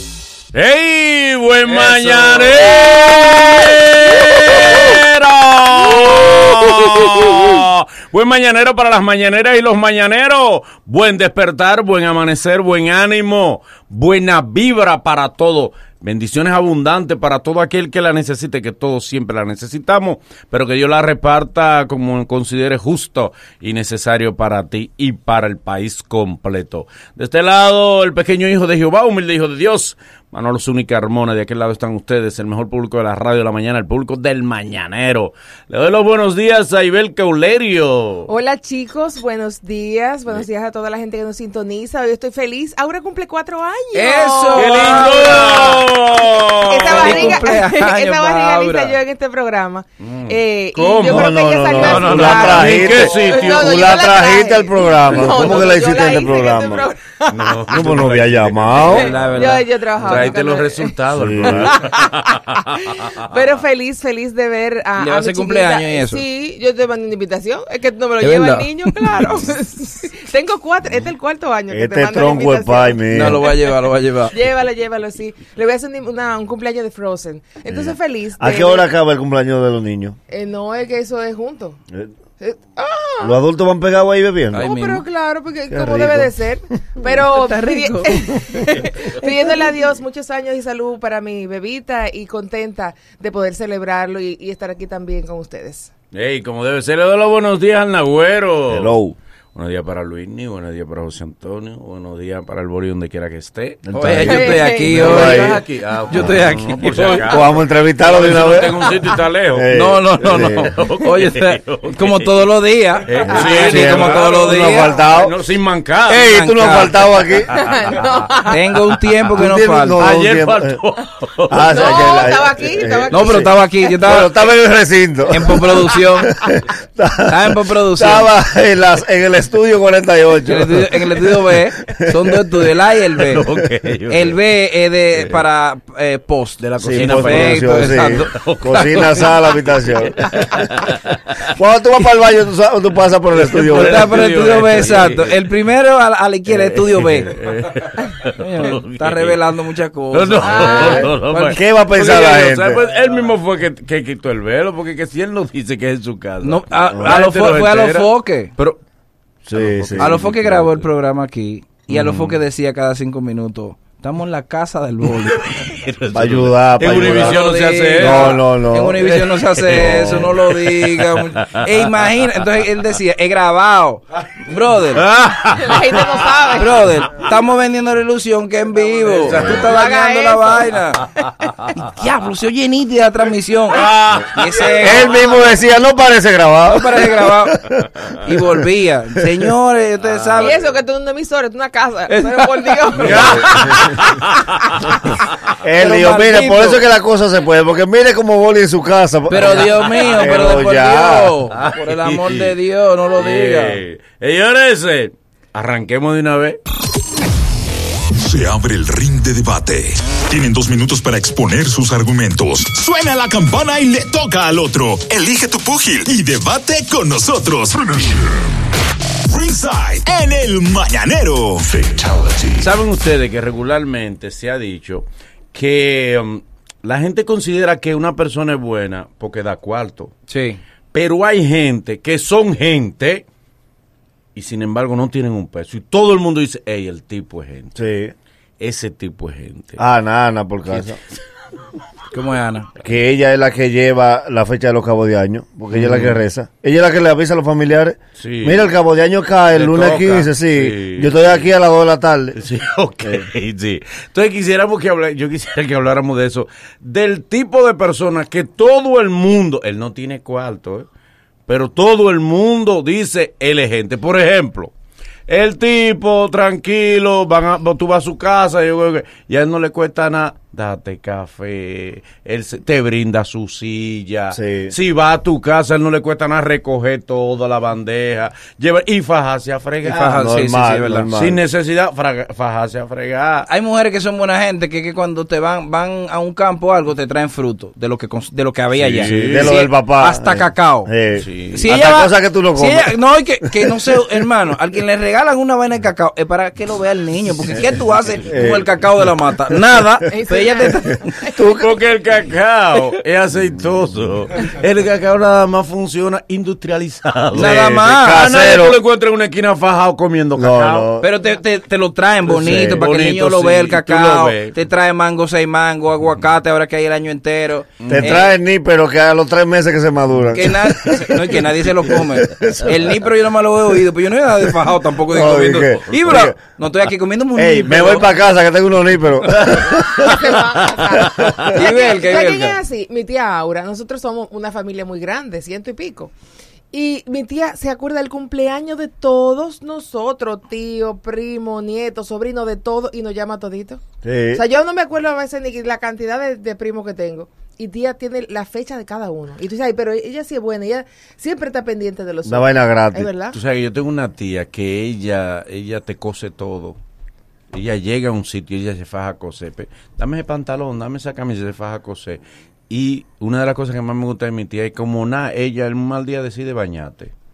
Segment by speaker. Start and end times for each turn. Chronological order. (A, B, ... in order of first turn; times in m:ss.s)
0:00.5-0:38.3 A
0:01.6-0:05.0 B
0:38.3-0:45.9 C
0:43.9-0:45.8 B
0:44.5-0:47.5 A
0:46.6-0:57.8 C
0:46.9-0:49.0 B
0:50.0-0:54.1 A
0:51.0-0:56.9 D
0:55.1-0:56.7 A
0:57.2-1:03.2 A
0:57.7-0:59.2 D
0:58.8-1:00.3 B
0:58.9-1:00.9 C
1:01.1-1:01.8 D
1:01.4-1:13.4 C
1:05.0-1:06.2 B
1:08.2-1:09.2 B
1:11.7-1:13.4 D
1:13.1-1:14.3 B
1:14.3-1:18.9 C
1:17.7-1:20.2 D
1:20.3-1:21.8 C
1:22.4-1:23.4 C
1:23.2-1:24.7 D
1:24.5-1:25.0 B
1:24.6-1:35.9 C
1:25.7-1:26.3 D
1:27.0-1:28.2 B
1:28.5-1:28.8 D
1:36.1-1:39.0 A
1:38.7-1:39.2 D
1:39.6-1:52.4 A
1:43.8-1:45.6 D
1:43.9-1:47.3 B
1:44.2-1:45.0 C
1:46.9-1:47.3 C
1:47.2-1:49.0 D
1:49.5-1:50.7 D
1:49.7-1:54.9 B
1:53.1-1:56.3 A
1:53.3-1:53.6 C
1:53.4-1:55.4 D
1:56.1-1:57.7 D
1:56.1-1:57.0 B
1:57.5-1:58.7 C
1:57.5-1:58.1 A
1:58.4-2:00.0 B
1:59.3-2:00.8 D
2:00.0-2:02.3 A
2:01.5-2:03.5 D
2:01.7-2:03.7 C
2:03.1-2:04.3 B
2:04.0-2:11.1 D
2:05.3-2:06.3 B
2:07.3-2:08.3 B
2:10.4-2:13.5 B
2:11.9-2:12.2 D
2:13.2-2:14.4 A
2:14.1-2:19.2 B
2:16.8-2:20.6 D
2:16.9-2:19.4 A
2:20.4-2:21.5 A
2:21.5-2:24.2 D
2:23.3-2:25.4 A
2:23.7-2:27.4 B
2:26.5-2:29.4 A
2:28.3-2:31.0 B
2:30.1-2:38.8 A
2:30.4-2:31.1 C
2:30.6-2:32.8 D
2:36.4-2:38.5 B
2:36.9-2:37.2 D
2:39.4-2:40.9 A
2:39.5-2:40.2 D
2:40.0-2:45.7 B
2:41.9-2:42.4 A
2:45.4-2:48.4 A
2:46.1-2:47.4 D
2:47.0-2:55.1 B
2:48.0-2:49.1 D
2:49.0-2:52.2 A
2:54.9-2:56.5 A
2:55.5-2:56.8 C
2:56.5-3:01.0 B
2:59.2-2:59.8 A
2:59.4-3:00.7 C
3:01.8-3:05.2 B
3:03.7-3:04.7 A
3:04.8-3:07.9 D
3:04.9-3:05.6 C
3:06.7-3:07.6 B
3:08.2-3:10.6 B
3:10.1-3:10.6 A
3:10.4-3:13.6 C
3:12.1-3:14.1 B
3:13.0-3:14.5 A
3:15.6-3:21.3 D
3:15.8-3:16.8 B
3:19.3-3:23.8 B
3:21.5-3:22.5 A
3:23.2-3:26.6 A
3:28.2-3:38.5 E
3:39.2-3:42.6 E
3:42.5-3:50.1 A
3:50.3-3:50.6 B
3:50.9-3:53.2 A
3:54.3-3:57.8 A
3:57.8-3:58.1 D
3:58.6-3:59.8 A
3:59.8-4:01.0 D
4:00.7-4:01.0 A
4:02.1-4:02.7 B
4:02.8-4:12.4 D
4:05.7-4:06.2 A
4:08.2-4:08.7 A
4:09.5-4:11.5 A
4:12.4-4:20.9 A
4:21.5-4:24.7 A
4:25.3-4:40.2 A
4:34.3-4:34.7 D
4:39.8-4:41.1 B
4:40.1-4:41.4 D
4:41.1-4:43.5 A
4:43.5-4:50.9 B
4:48.8-4:49.6 A
4:49.0-4:52.9 D
4:51.2-4:51.6 A
4:51.5-5:01.2 B
4:53.6-4:53.9 D
4:58.2-4:58.7 D
5:00.1-5:01.3 C
5:01.3-5:01.7 D
5:01.6-5:10.9 A
5:07.3-5:08.3 B
5:07.3-5:08.8 D
5:10.4-5:11.1 D
5:11.0-5:18.3 B
5:12.3-5:12.8 D
5:12.4-5:14.5 A
5:17.8-5:18.2 A
5:17.9-5:22.9 D
5:20.3-5:28.1 B
5:25.1-5:26.4 D
5:27.4-5:30.4 D
5:29.4-5:29.8 A
5:29.8-5:36.1 C
5:31.0-5:31.5 D
5:31.5-5:32.6 B
5:36.7-5:43.8 C
5:44.0-5:44.4 D
5:44.3-5:53.4 C
5:52.2-5:53.1 D
5:53.3-5:56.8 A
5:57.5-6:07.1 A